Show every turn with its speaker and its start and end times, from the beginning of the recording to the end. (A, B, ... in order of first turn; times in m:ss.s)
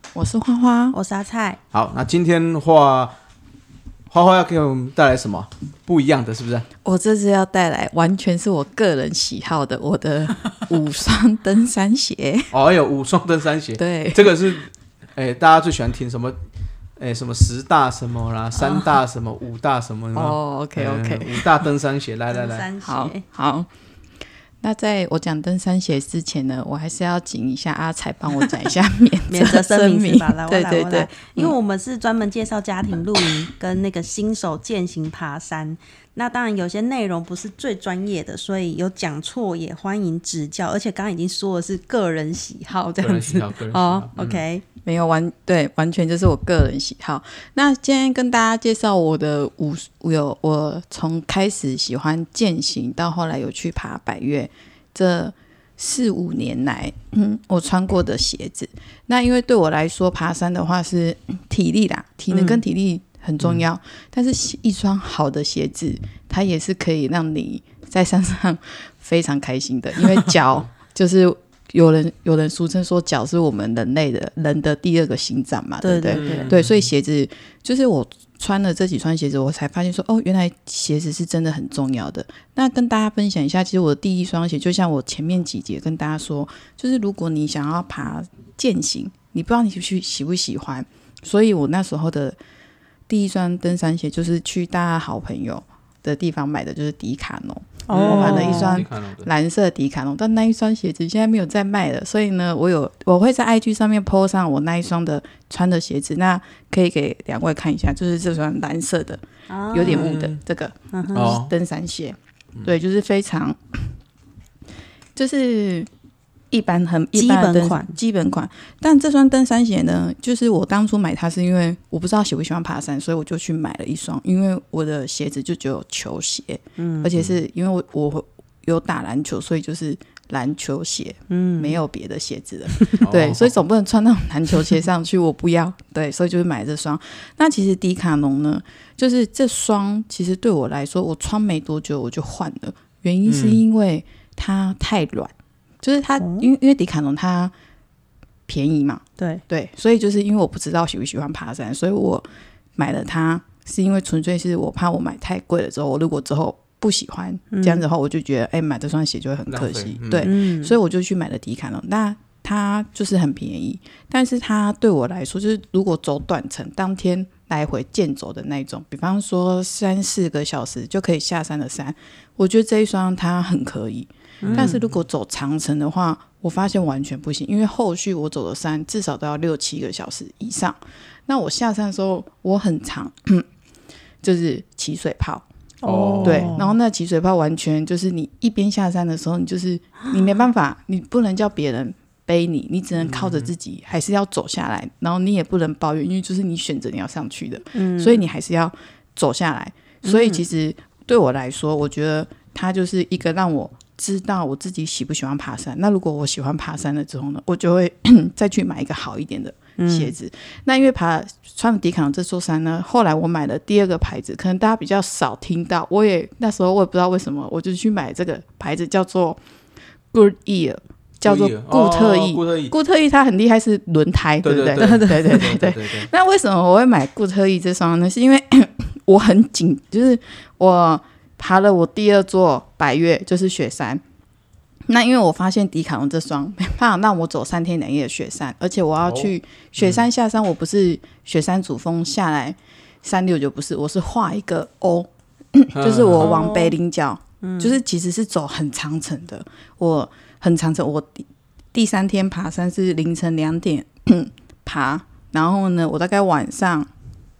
0:00.1-0:01.0 A
0:00.9-0:01.6 B
0:01.7-0:03.1 C
0:04.1-0:06.6 C
0:06.8-0:12.5 A
0:12.5-0:16.4 C
0:13.8-0:14.3 A
0:17.0-0:22.7 C
0:18.6-0:18.9 B
0:20.1-0:21.5 A
0:22.3-0:23.2 B
0:22.8-0:23.7 A
0:24.6-0:31.5 A
0:29.3-0:44.6 B
0:43.0-0:44.4 C
0:44.8-1:32.4 A
1:02.3-1:02.6 B
1:15.8-1:16.5 B
1:16.1-1:16.9 C
1:33.1-1:53.8 A
1:37.9-1:38.8 B
1:37.9-1:39.3 C
1:49.5-1:50.1 B
1:49.8-1:50.4 C
1:50.9-1:51.4 B
1:51.1-1:51.5 C
1:55.2-1:55.9 A
1:56.5-2:27.5 A
1:57.1-1:58.0 B
2:06.8-2:07.1 B
2:11.3-2:11.8 B
2:13.0-2:13.5 C
2:23.2-2:23.6 C
2:26.2-2:26.5 B
2:28.5-2:32.2 A
2:29.2-2:29.4 B
2:32.8-3:03.4 A
2:37.5-2:37.8 B
2:39.5-2:40.3 C
2:40.2-2:40.8 B
2:54.4-2:54.8 B
2:54.5-2:54.9 C
3:04.2-3:05.5 A
3:05.8-3:06.7 B
3:05.8-3:06.6 C
3:06.2-3:39.4 A
3:13.0-3:13.5 C
3:17.7-3:18.2 B
3:20.0-3:20.4 B
3:29.8-3:30.1 B
3:40.1-3:54.0 A
3:41.2-3:42.7 C
3:44.4-3:46.1 C
3:44.8-3:45.4 B
3:54.9-4:16.9 A
3:59.0-4:00.0 C
4:05.8-4:06.3 C
4:06.2-4:06.7 B
4:07.4-4:07.7 B